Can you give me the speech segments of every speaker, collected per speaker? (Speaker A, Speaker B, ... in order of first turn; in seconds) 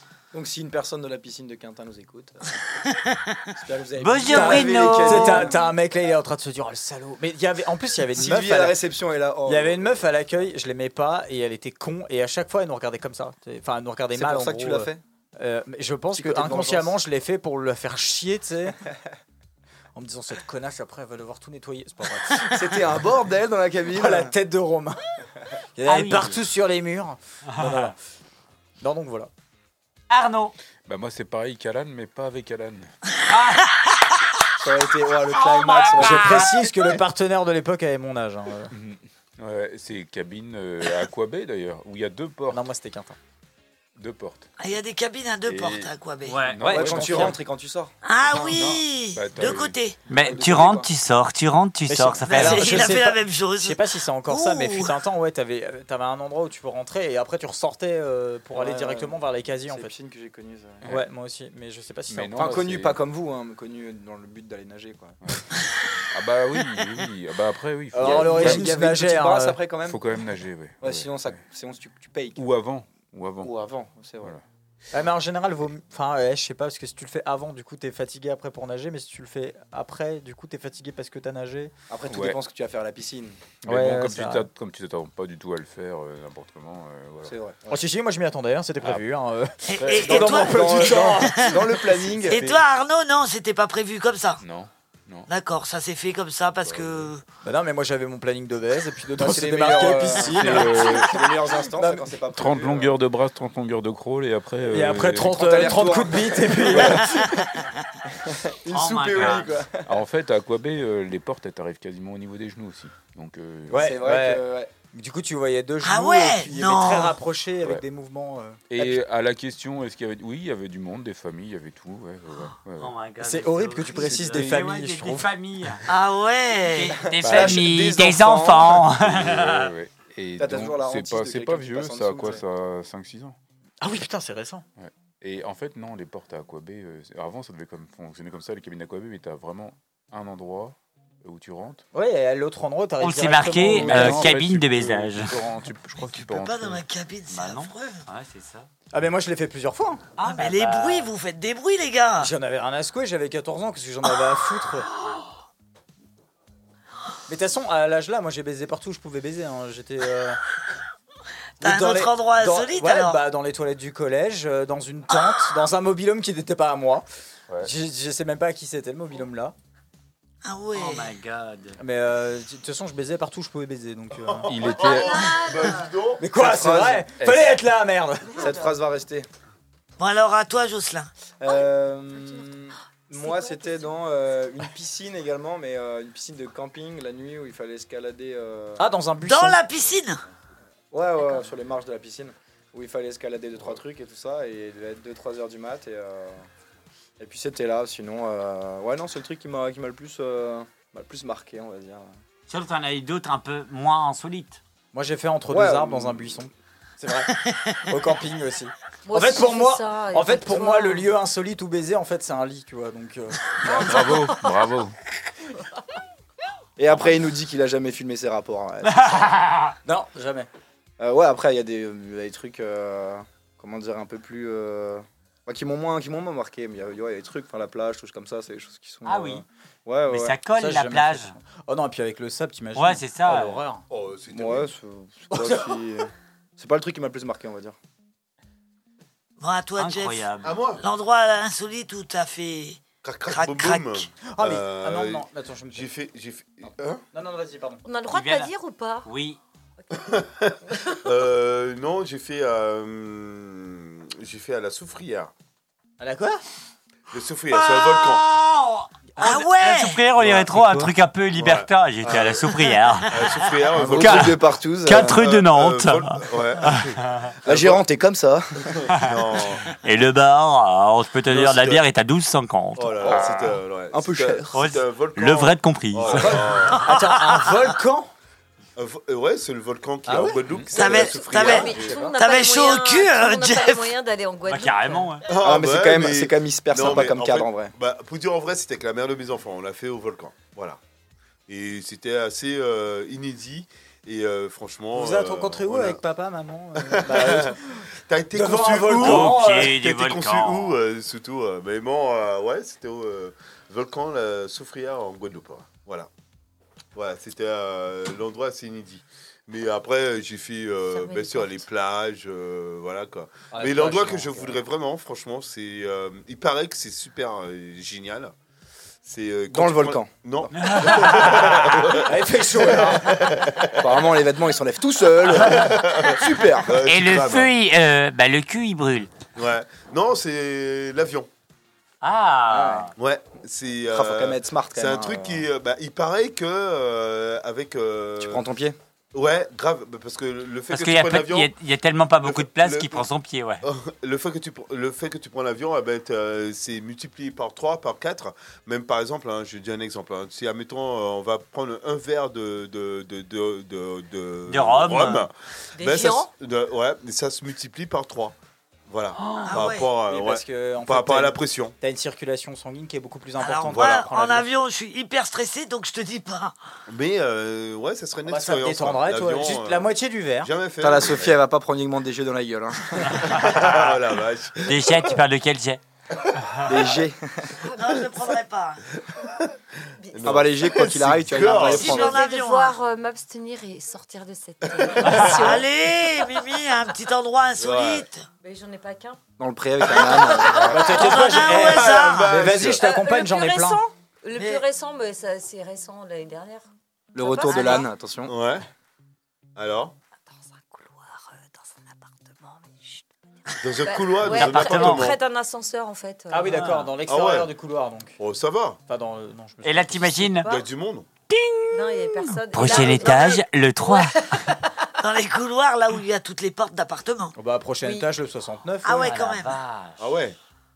Speaker A: 0.3-2.6, 3.5-5.6, 8.1-10.1, 14.1-15.0, 16.1-17.0, 22.5-24.3, 34.6-36.7, 46.6-47.9, 50.1-50.9, 58.5-60.9, 62.3-65.2, 68.0-70.0, 70.8-72.4, 73.4-74.3, 81.9-83.5, 87.2-87.8, 89.9-92.4, 99.1-103.0, 105.3-107.5, 108.1-109.9, 113.7-114.7, 127.0-128.8, 130.4-132.4, 176.3-177.0, 178.3-179.3, 181.4-188.8, 190.9-196.4, 197.2-202.1, 205.5-206.4, 216.8-219.4, 221.0-230.3, 234.3-237.8, 263.7-265.2, 267.4-268.8, 273.9-274.6, 285.3-287.7, 319.5-320.7, 323.8-326.8, 332.5-332.9, 333.9-335.4, 338.2-338.8, 370.8-373.3, 376.6-377.5, 380.2-382.2, 389.4-390.7, 397.1-398.3
Speaker B: 4.0-5.5, 25.9-26.4, 27.6-27.9, 30.1-30.5, 33.3-33.7, 35.3-36.6, 46.2-46.6, 50.1-52.8, 108.7-109.6, 122.8-125.8, 126.7-129.7, 143.0-145.3, 147.3-148.7, 150.2-151.1, 170.7-171.8, 202.5-204.6, 218.8-219.7, 229.0-229.4, 230.1-231.3, 232.8-233.6, 239.8-240.6, 248.1-248.5, 249.0-249.4, 257.5-263.3, 264.0-267.3, 268.9-273.1, 274.5-276.6, 284.4-285.2, 299.0-300.8, 320.5-321.9, 326.8-329.1, 332.0-332.9, 340.7-343.6, 354.5-355.3, 359.2-359.6, 373.1-373.9, 374.6-375.8, 404.2-405.1, 409.6-410.5, 411.3-414.3, 418.9-420.0
Speaker C: 4.3-8.8, 9.5-18.8, 19.9-22.6, 23.9-25.0, 25.8-27.9, 28.8-29.3, 35.9-38.7, 42.5-43.2, 46.6-47.3, 51.9-59.9, 60.8-62.6, 67.9-69.6, 74.9-81.7, 83.6-84.5, 87.7-91.6, 92.2-92.6, 97.4-101.1, 101.8-102.0, 104.7-107.4, 113.7-119.0, 123.2-125.3, 133.8-134.6, 141.9-144.3, 148.9-150.1, 152.2-154.9, 157.3-160.4, 161.6-167.1, 167.6-169.5, 171.8-174.5, 176.2-178.5, 188.8-189.6, 204.9-207.3, 207.8-213.8, 219.8-220.5, 230.5-233.8, 235.3-235.8, 244.2-245.9, 247.1-247.8, 256.0-256.4, 260.5-260.9, 276.7-278.1, 280.1-280.4, 294.9-297.8, 298.3-299.7, 313.5-314.5, 321.8-323.1, 360.1-364.5, 368.3-370.5, 390.6-393.8, 406.3-408.2, 408.9-410.4, 417.3-419.1
Speaker D: 30.9-32.9, 38.7-42.6, 44.0-44.5, 45.4-47.4, 48.3-49.8, 62.1-63.0, 66.1-68.7, 69.8-71.4, 72.3-73.5, 82.1-82.4, 83.6-87.3, 89.7-90.5, 94.4-95.3, 96.6-97.1, 100.2-101.3, 102.3-105.5, 109.8-113.9, 118.7-122.9, 124.0-124.6, 127.2-127.7, 129.0-133.4, 134.8-141.8, 143.5-146.8, 174.4-175.5, 177.2-177.6, 213.7-214.9, 273.1-273.6
Speaker E: 44.6-46.4, 48.0-50.0, 52.3-54.9, 89.7-91.5, 92.2-94.4, 95.3-97.2, 115.8-117.2, 125.9-127.0, 146.0-148.0, 150.2-152.3, 161.6-163.2, 170.4-171.1, 180.0-181.1, 189.2-190.2, 239.4-244.1, 259.2-260.1, 276.7-277.5, 280.7-283.9, 359.5-359.9, 363.4-366.5, 377.6-378.9, 381.6-382.8, 385.2-388.2, 390.8-392.4, 394.3-394.6, 415.0-417.3, 418.8-419.6
Speaker F: 174.2-176.2, 233.9-234.7, 240.4-240.8, 243.0-247.0, 250.0-255.3, 257.1-258.2, 260.2-260.5, 261.3-262.5, 263.0-264.4, 265.1-267.8, 268.7-269.7, 271.3-271.8, 272.8-276.8, 278.8-282.1, 285.3-290.8, 291.5-296.0, 296.8-306.1, 306.9-318.3, 319.0-324.0, 325.3-327.5, 329.4-331.3, 332.9-338.4, 339.1-341.5, 342.2-343.1, 343.6-358.4, 358.9-361.7, 363.7-364.1, 366.9-371.4, 373.1-375.2, 379.1-379.5, 380.1-382.2, 384.6-385.6, 387.6-388.1, 389.8-392.8, 398.3-398.6, 399.6-399.9, 403.6-405.2, 407.1-407.5, 408.2-408.8, 410.4-411.1, 420.0-420.4
Speaker G: 174.6-175.9, 181.4-182.5, 183.1-183.9, 191.2-191.5, 209.1-211.1, 213.6-214.6, 247.8-249.1, 249.8-250.1, 250.7-251.0, 280.7-285.2, 310.9-311.7, 355.7-356.3, 377.6-378.1, 380.0-380.4, 381.6-385.6, 388.4-389.2, 389.8-391.5, 392.5-397.9, 400.3-406.7, 410.4-410.7, 411.7-414.9, 417.8-418.1